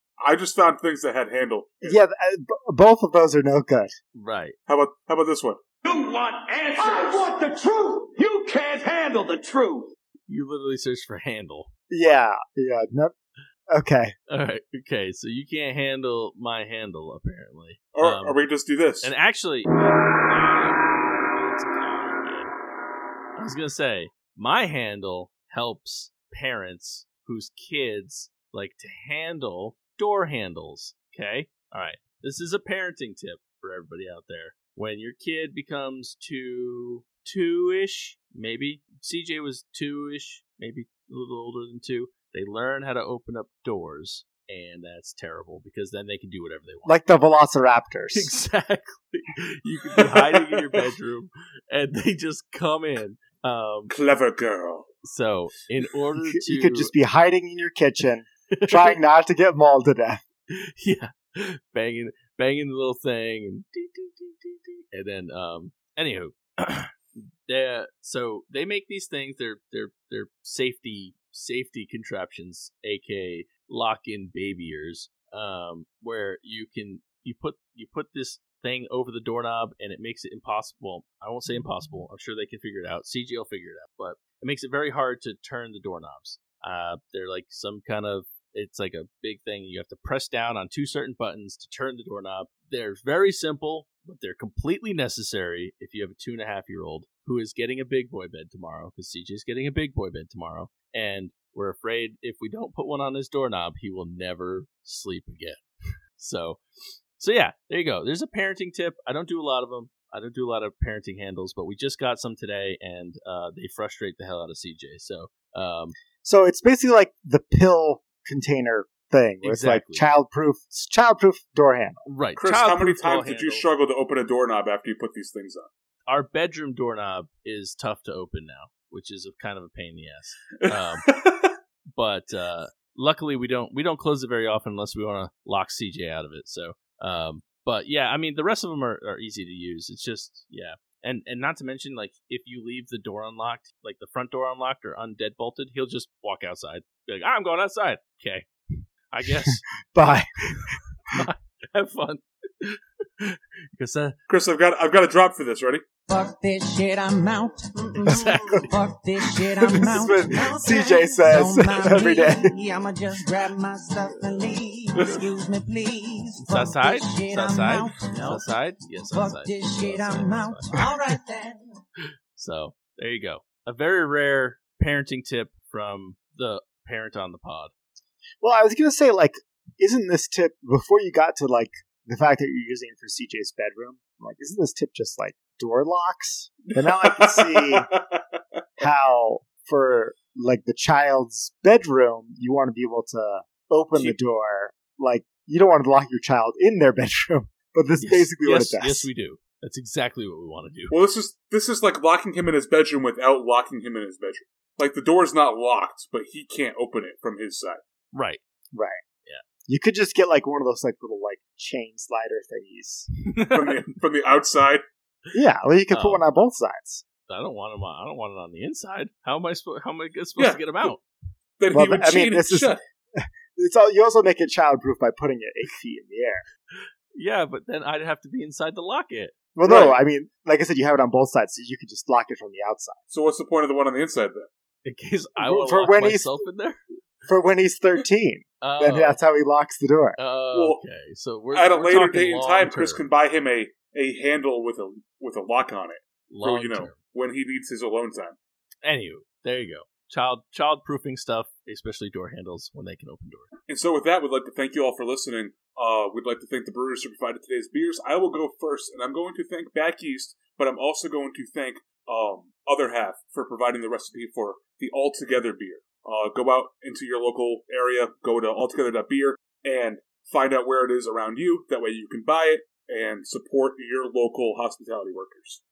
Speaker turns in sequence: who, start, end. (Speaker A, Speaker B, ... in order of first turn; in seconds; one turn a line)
Speaker A: 0.2-2.0
Speaker B: 1.8-3.9
Speaker C: 4.1-4.5
Speaker A: 4.7-5.6
Speaker D: 5.8-9.9
Speaker B: 6.8-7.2
Speaker C: 10.3-11.7
Speaker B: 11.9-13.1
Speaker B: 13.7-14.1
Speaker C: 14.3-18.4
Speaker A: 17.9-19.1
Speaker C: 19.0-22.5
Speaker C: 23.4-47.0
Speaker B: 46.8-48.3
Speaker C: 48.1-53.9
Speaker A: 53.9-54.9
Speaker C: 55.0-56.9
Speaker B: 56.3-60.2
Speaker C: 58.5-59.0
Speaker C: 60.5-106.6
Speaker C: 107.2-116.0
Speaker B: 116.2-122.0
Speaker C: 119.4-120.1
Speaker C: 122.0-123.7
Speaker A: 122.4-125.7
Speaker C: 126.1-131.1
Speaker A: 131.0-131.5
Speaker C: 131.9-148.5
Speaker C: 149.1-149.6
Speaker B: 149.5-150.7
Speaker C: 150.5-154.2
Speaker A: 154.3-155.8
Speaker E: 156.1-171.6
Speaker C: 158.1-158.7
Speaker B: 158.1-158.6
Speaker B: 159.6-162.6
Speaker C: 166.4-170.9
Speaker C: 172.3-177.7
Speaker B: 178.4-187.9
Speaker A: 186.7-188.2
Speaker B: 188.8-199.1
Speaker C: 198.0-200.9
Speaker A: 200.9-207.8
Speaker C: 208.1-208.4
Speaker B: 208.7-209.0
Speaker B: 209.7-213.1
Speaker C: 213.2-213.8
Speaker A: 213.5-214.8
Speaker B: 215.3-217.0
Speaker C: 215.9-216.2
Speaker C: 217.3-221.0
Speaker A: 220.4-220.7
Speaker A: 221.6-222.8
Speaker B: 221.7-226.4
Speaker C: 227.1-229.3
Speaker B: 229.5-233.0
Speaker A: 229.6-230.0
Speaker A: 233.1-234.5
Speaker C: 234.8-236.8
Speaker B: 235.4-236.3
Speaker B: 237.3-240.2
Speaker C: 238.6-239.2
Speaker C: 240.2-243.0
Speaker A: 240.5-240.8
Speaker A: 241.5-248.3
Speaker C: 246.3-247.0
Speaker C: 248.8-253.5
Speaker A: 253.7-275.6